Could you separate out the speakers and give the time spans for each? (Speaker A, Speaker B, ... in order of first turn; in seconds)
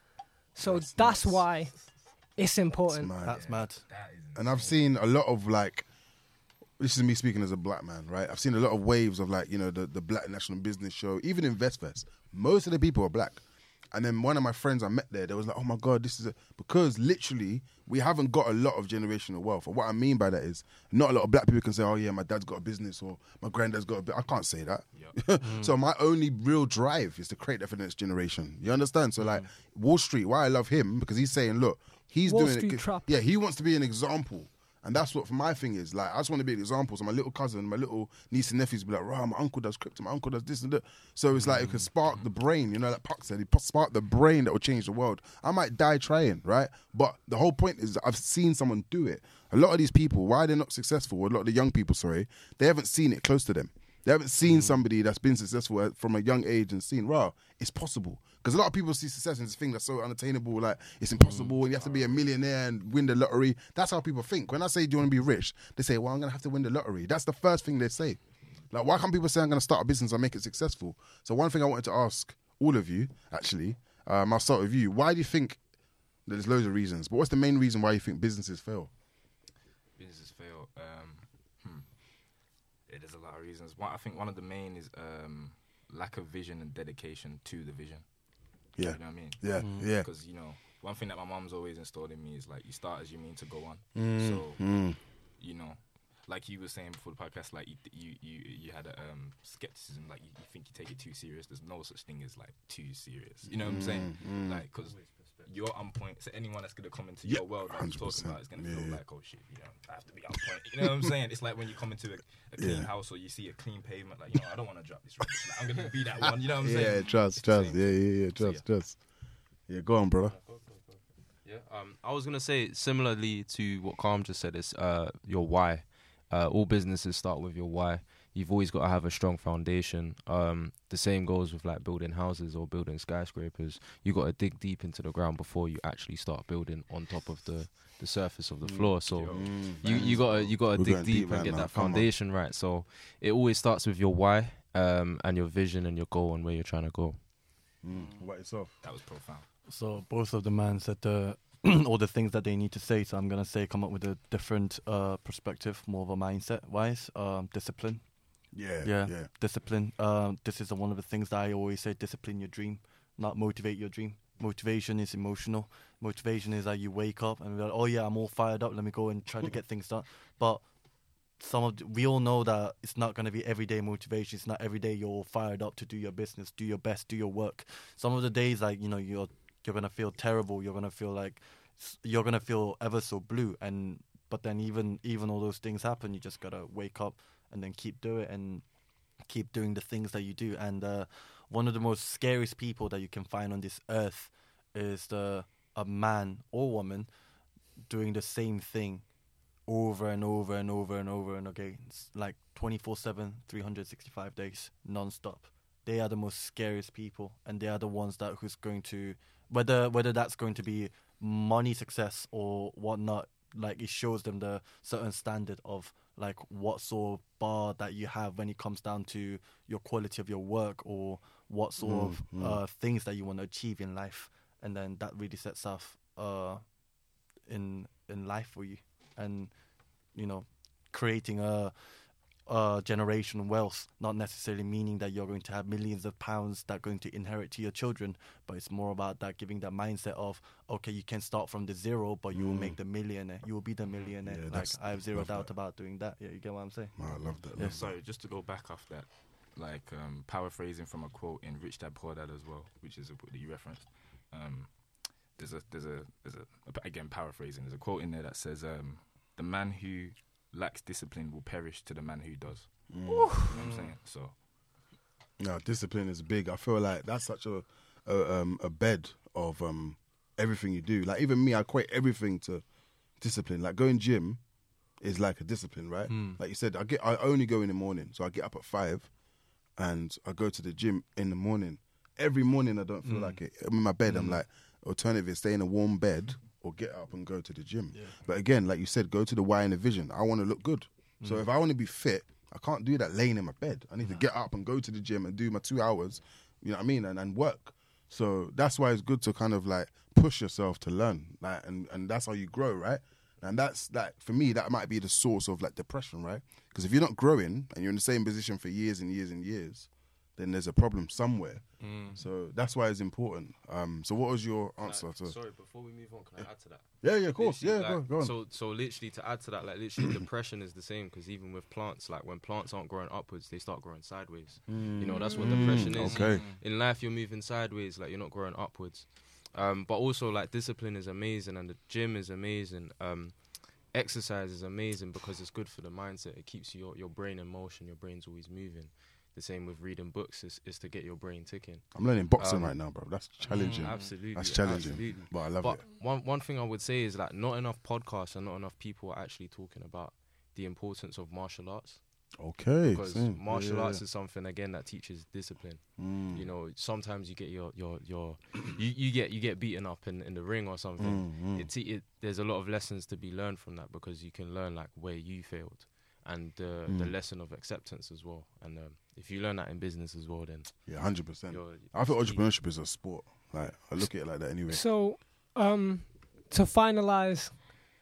Speaker A: 0.6-1.7, 2.4-3.1, 32.3-33.1, 263.1-263.5, 325.1-325.8, 374.7-377.6
Speaker B: 0.6-1.5, 2.9-3.6, 4.3-5.9, 6.8-75.6, 76.3-78.9, 88.8-90.1, 94.0-95.0, 103.5-104.7, 107.2-109.0, 110.8-111.1, 112.6-112.9, 116.5-119.0, 119.7-120.4, 138.6-142.1, 147.8-148.8, 158.5-159.3, 221.8-222.6, 242.3-242.8, 244.2-245.5, 247.0-247.9, 262.9-263.4, 265.4-272.6, 273.2-274.4, 275.0-279.1, 279.8-315.4, 317.0-318.4, 324.7-326.5, 341.9-345.8, 352.4-354.0, 356.0-356.5, 361.0-361.7, 366.9-367.1, 370.9-374.9
Speaker C: 3.2-3.9, 25.4-25.7, 41.3-41.9, 54.5-54.8, 89.6-89.9, 149.7-158.1, 158.8-170.7, 171.3-197.1, 197.8-199.1, 199.7-226.8, 227.4-247.9, 263.5-263.9, 276.1-276.4, 283.1-283.4, 284.1-284.4, 311.8-312.2
Speaker D: 3.3-4.8, 80.0-81.9, 82.9-118.7, 139.0-140.6, 148.8-149.5, 247.6-264.4
Speaker E: 105.0-105.5, 120.3-147.2, 311.9-312.1, 314.8-342.8, 343.4-352.1, 352.9-372.6